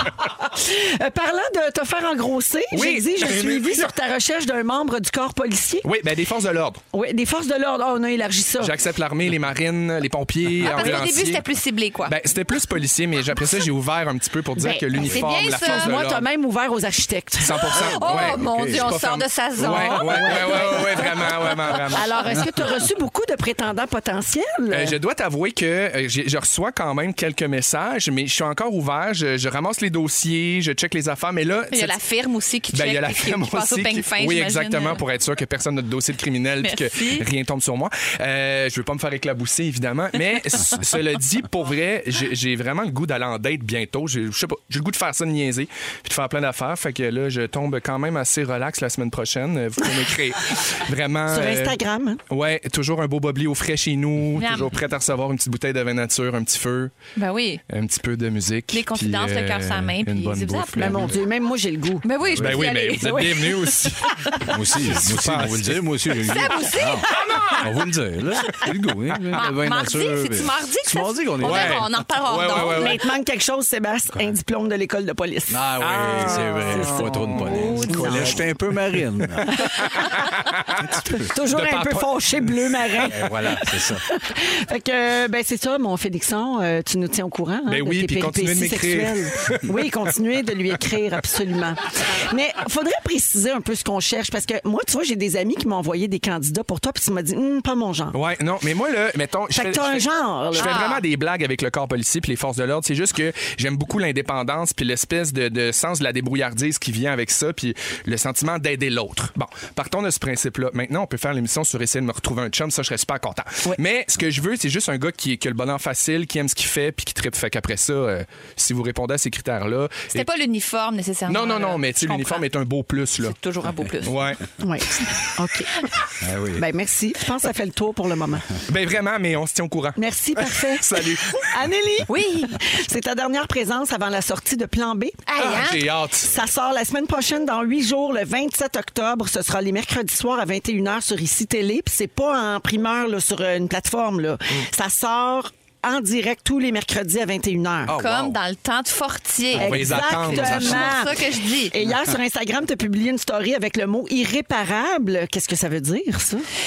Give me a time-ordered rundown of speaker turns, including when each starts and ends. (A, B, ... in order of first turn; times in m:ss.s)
0:00.4-0:05.9 A
0:02.7-0:03.9 B
0:05.8-0:06.8 B
0:06.9-0:08.7 A
0:08.6-0:11.4 B
0:10.6-0:12.2 C
0:12.1-0:16.3 B
0:14.6-0:17.7 A
0:15.0-0:16.0 C
0:17.4-0:22.1 B
0:17.8-0:21.8 C
0:18.1-0:18.9 D
0:19.6-0:21.0 A
0:21.9-0:25.0 A
0:24.7-0:32.0 B
0:31.7-0:35.0 C
0:32.7-0:56.9 B
0:36.6-0:37.3 C
0:51.3-0:52.2 A
0:54.4-0:54.8 C
0:57.2-0:57.6 C
0:57.7-1:01.2 B
0:58.7-1:01.1 C
1:00.8-1:02.1 A
1:02.0-1:03.7 C
1:02.2-1:02.6 D
1:02.3-1:05.8 B
1:02.9-1:04.5 A
1:04.4-1:11.9 D
1:06.3-1:07.7 C
1:07.1-1:07.6 B
1:09.3-1:13.0 C
1:11.4-1:13.0 B
1:12.5-1:15.6 A
1:15.5-1:19.5 D
1:15.8-1:23.1 B
1:17.5-1:18.4 A
1:19.6-1:20.3 A
1:21.0-1:38.2 A
1:23.0-1:24.0 D
1:27.7-1:29.9 B
1:38.1-2:00.3 B
1:39.5-1:40.9 A
1:40.6-1:41.0 C
2:00.1-2:02.5 C
2:01.3-2:03.4 B
2:03.2-2:04.3 C
2:04.0-2:04.4 B
2:04.6-2:05.7 A
2:06.2-2:06.6 D
2:06.6-2:08.5 A
2:08.7-2:11.7 B
2:10.0-2:15.2 A
2:12.1-2:12.5 C
2:15.3-2:15.9 C
2:15.4-2:16.4 B
2:16.3-2:27.9 A
2:27.9-2:28.4 B
2:27.9-2:31.7 C
2:29.6-2:31.0 B
2:29.6-2:36.4 A